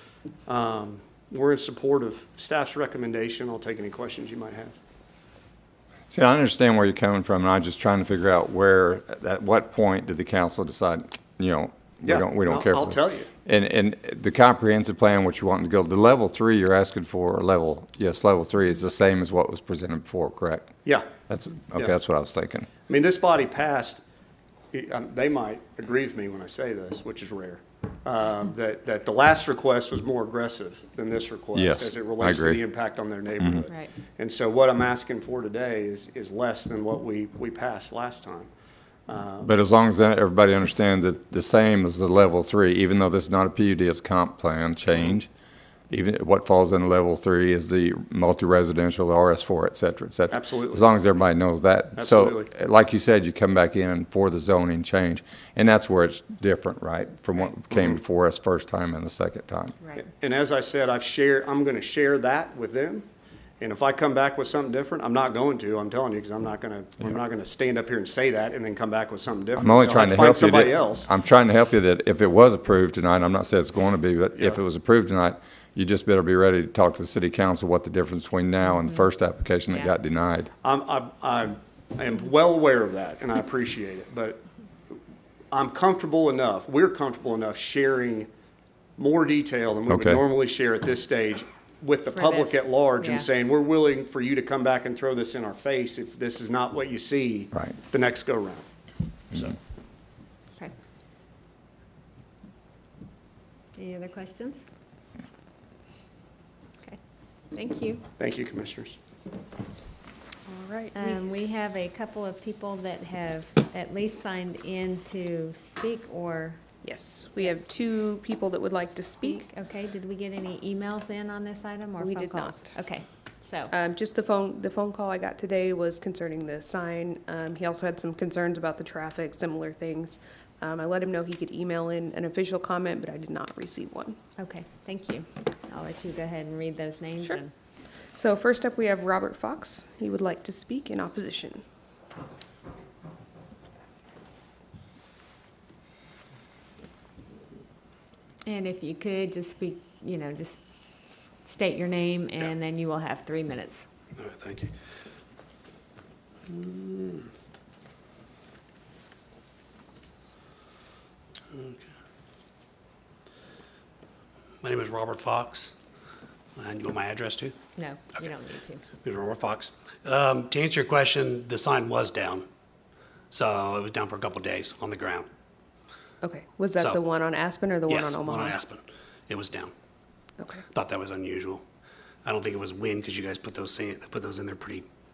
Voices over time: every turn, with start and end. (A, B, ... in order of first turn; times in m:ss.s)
0:00.5-0:04.8 A
0:06.1-0:20.7 B
0:12.0-0:13.3 A
0:21.3-0:22.7 B
0:22.9-0:24.0 A
0:24.7-0:38.5 A
0:31.6-0:32.6 B
0:33.4-0:33.6 B
0:39.1-0:39.5 A
0:39.4-0:45.3 B
0:45.9-0:59.8 B
0:50.3-0:50.9 A
0:52.0-0:52.5 A
0:57.7-0:58.0 A
1:00.0-1:03.1 A
1:03.6-1:11.1 A
1:09.6-1:20.5 B
1:18.7-1:19.0 C
1:20.6-1:24.4 A
1:25.5-1:28.3 A
1:29.0-1:38.7 A
1:29.9-1:30.2 B
1:32.1-1:33.3 C
1:43.8-1:44.6 C
1:47.5-1:48.0 C
1:48.2-1:49.0 A
1:50.5-1:51.2 D
1:51.0-1:56.6 C
1:56.8-1:59.5 D
1:59.2-2:03.7 C
2:02.0-2:02.7 D
2:03.7-2:14.2 D
2:14.4-2:17.5 C
2:18.2-2:21.6 D
2:28.5-2:33.8 C
2:34.2-2:34.7 E
2:36.5-2:37.3 E
2:41.5-2:41.9 E
2:44.6-2:45.8 E
2:46.6-2:47.6 E
2:47.8-2:48.9 C
2:49.0-2:52.5 E
2:53.3-2:55.3 E
2:56.2-2:58.6 D
2:57.9-2:59.7 E
3:00.4-3:00.6 D
3:00.7-3:01.6 E
3:02.2-3:04.9 E